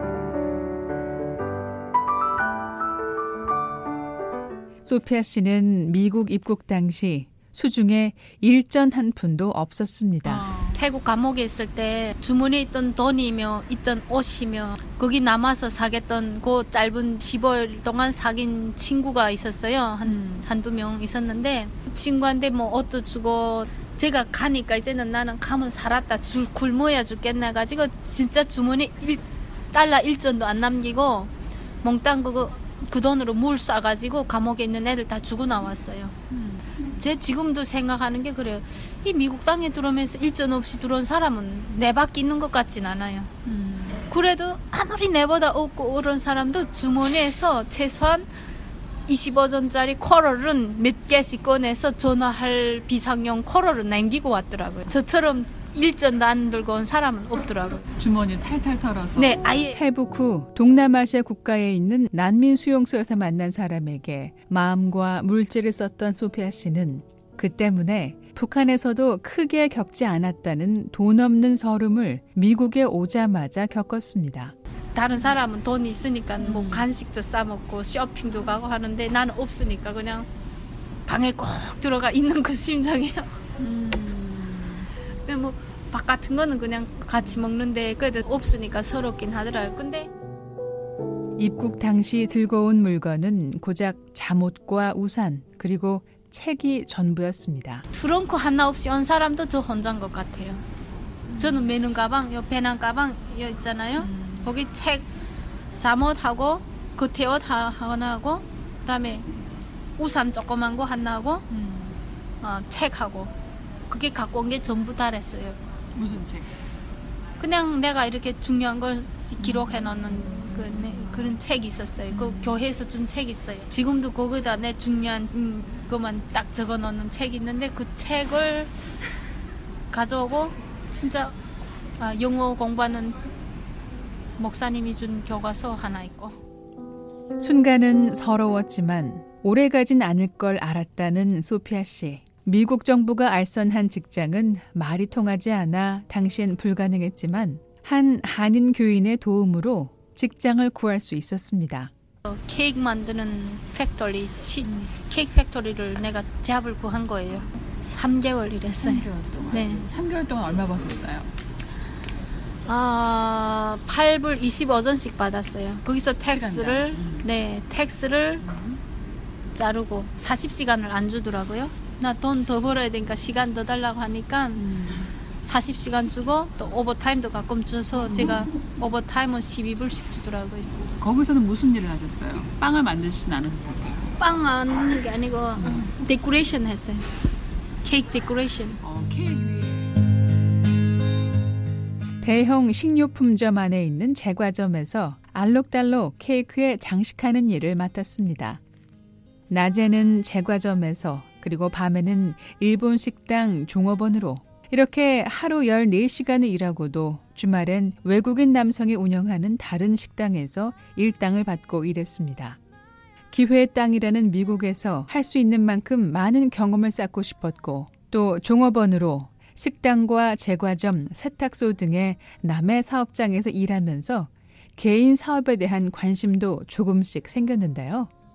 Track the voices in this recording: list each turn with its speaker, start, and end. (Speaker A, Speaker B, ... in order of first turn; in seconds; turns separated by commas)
Speaker A: 4.8-10.4, Speaker B: 10.3-10.8, Speaker C: 10.3-36.2, Speaker B: 20.1-20.5, Speaker B: 36.3-36.7, Speaker C: 37.0-43.3, Speaker B: 43.5-44.0, Speaker C: 44.0-48.3, Speaker C: 49.1-57.9, Speaker B: 58.0-59.5, Speaker C: 59.2-59.8, Speaker A: 59.7-74.5, Speaker C: 75.0-80.3, Speaker B: 76.4-76.9, Speaker C: 81.1-83.6, Speaker C: 85.2-90.1, Speaker A: 91.4-97.8, Speaker C: 97.9-100.6, Speaker B: 101.3-101.7, Speaker C: 101.4-105.1, Speaker B: 104.0-104.5, Speaker C: 105.8-109.3, Speaker C: 110.0-111.5, Speaker B: 111.5-112.0, Speaker C: 112.4-113.3, Speaker C: 113.9-115.6, Speaker B: 116.0-116.5, Speaker C: 117.4-128.7, Speaker B: 119.4-121.4, Speaker B: 122.1-122.6, Speaker C: 129.9-131.3, Speaker C: 132.0-133.2, Speaker C: 134.4-136.4, Speaker A: 137.4-151.9, Speaker C: 152.3-159.8, Speaker B: 158.8-161.3, Speaker C: 162.7-168.4, Speaker B: 166.2-167.3, Speaker B: 168.4-168.8, Speaker C: 169.5-174.7, Speaker B: 174.6-175.1, Speaker C: 175.4-180.8, Speaker B: 177.9-178.6, Speaker B: 181.0-184.2, Speaker C: 184.2-187.1, Speaker B: 185.6-185.9, Speaker C: 187.8-188.8, Speaker B: 188.8-189.9, Speaker A: 192.2-198.6, Speaker A: 199.5-212.6, Speaker A: 213.3-228.1